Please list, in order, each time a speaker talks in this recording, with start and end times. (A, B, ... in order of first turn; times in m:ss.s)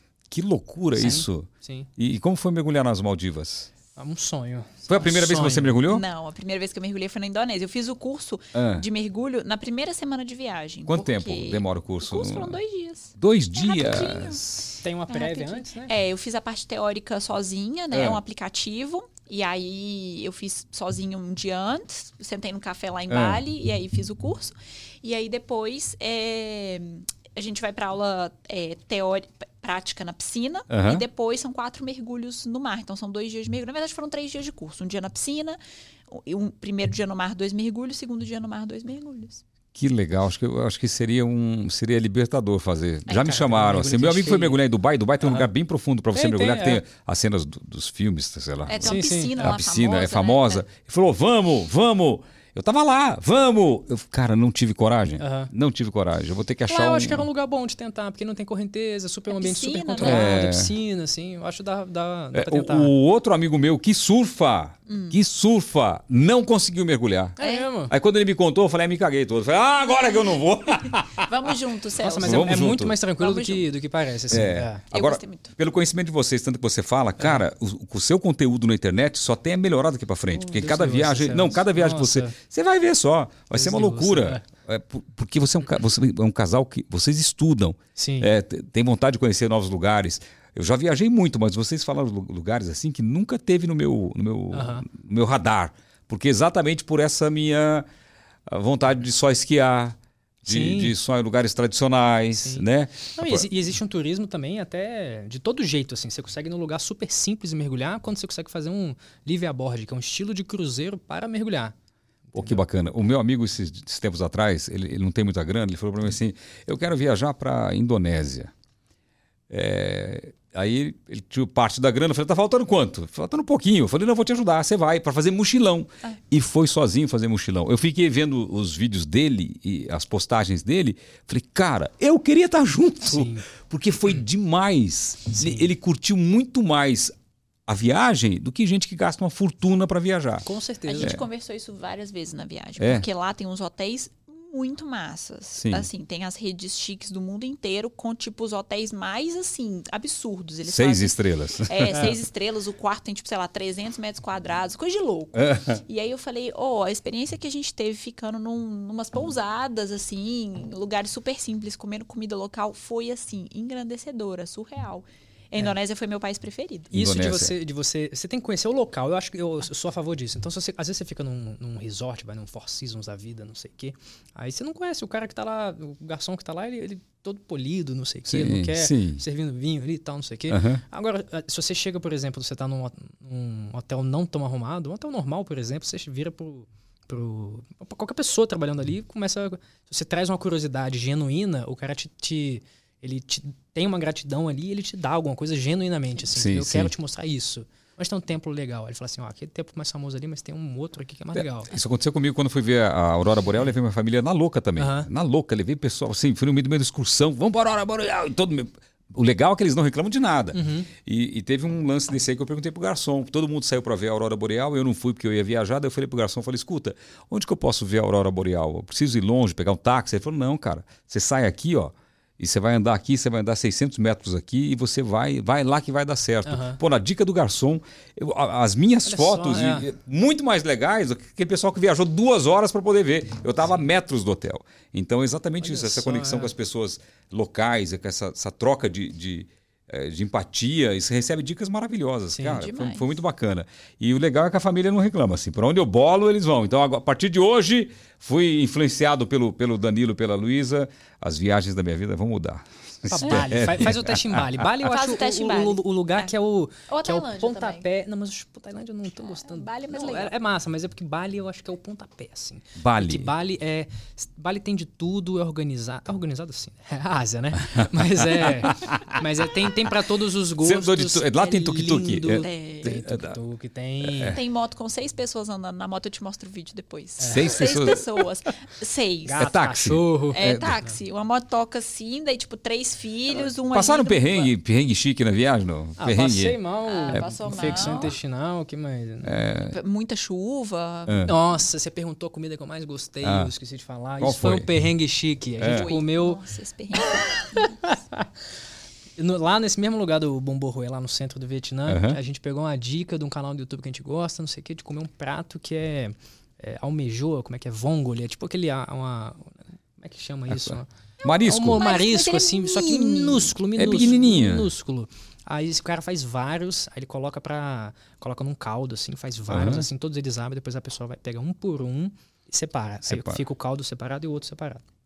0:00.3-0:03.7 A
0:01.0-0:01.9 B
0:04.0-0:05.8 B
0:04.9-0:06.0 A
0:05.8-0:39.4 C
0:08.6-0:08.9 A
0:10.9-0:12.6 A
0:13.2-0:14.7 A
0:14.8-0:15.9 B
0:17.9-0:18.2 A
0:23.1-0:23.4 A
0:30.7-0:31.0 A
0:39.8-0:57.3 A
0:43.1-0:44.6 B
0:45.2-0:45.5 B
0:46.1-0:46.8 B
0:48.7-0:50.6 C
0:48.8-0:49.6 B
0:55.2-0:55.5 B
0:56.7-1:02.9 B
0:59.3-1:00.3 C
1:00.0-1:00.7 A
1:02.3-1:07.4 A
1:04.9-1:05.2 C
1:07.4-1:07.9 B
1:07.4-1:07.7 C
1:07.9-1:11.6 A
1:11.2-1:13.7 C
1:12.0-1:14.8 B
1:12.2-1:13.0 A
1:14.3-1:37.9 A
1:14.9-1:15.5 C
1:20.3-1:22.4 B
1:23.5-1:24.4 B
1:28.0-1:28.3 B
1:34.5-1:34.9 B
1:38.5-1:43.5 A
1:40.4-1:41.0 B
1:42.4-1:51.8 B
1:52.3-1:52.6 B
1:52.4-1:58.5 A
1:59.5-2:17.1 A
2:13.0-2:13.4 B
2:15.4-2:15.7 B
2:17.7-2:20.5 A
2:20.4-2:21.2 B
2:20.9-2:46.9 C
2:22.8-2:23.1 A
2:25.6-2:25.9 A
2:30.7-2:32.2 A
2:35.4-2:35.8 A
2:46.9-2:47.6 A
2:46.9-3:21.7 B
2:58.3-2:59.2 A
3:00.5-3:00.8 A
3:16.4-3:16.9 A
3:21.3-4:14.5 A
3:24.8-3:25.1 B
3:30.5-3:30.9 B
3:46.5-3:46.8 B
3:49.0-3:49.9 B
3:55.6-3:56.5 B
4:02.3-4:02.6 B
4:02.5-4:03.2 C
4:13.1-4:34.4 B
4:14.8-4:16.3 C
4:16.9-4:17.8 C
4:19.2-4:20.3 C
4:22.8-4:23.3 A
4:28.4-4:29.2 A
4:30.6-4:33.4 A
4:32.4-4:32.9 C
4:34.0-4:34.4 A
4:34.3-4:39.5 C
4:37.2-4:37.5 B
4:37.2-4:38.0 A
4:39.3-4:40.4 B
4:39.4-4:40.7 A
4:40.3-4:44.5 C
4:43.7-4:48.0 A
4:46.0-4:49.4 B
4:46.8-4:48.2 C
4:49.2-4:49.8 A
4:49.7-4:51.4 C
4:51.1-4:51.3 A
4:51.2-4:56.4 B
4:53.2-4:53.5 A
4:54.2-4:54.7 A
4:55.6-4:55.9 A
4:55.6-4:58.0 C
4:57.6-4:58.3 B
4:59.2-5:10.9 B
5:01.9-5:02.2 A
5:10.5-5:11.9 A
5:11.2-5:13.5 C
5:11.4-5:24.8 B
5:13.8-5:14.7 A
5:19.5-5:19.8 A
5:23.1-5:23.4 A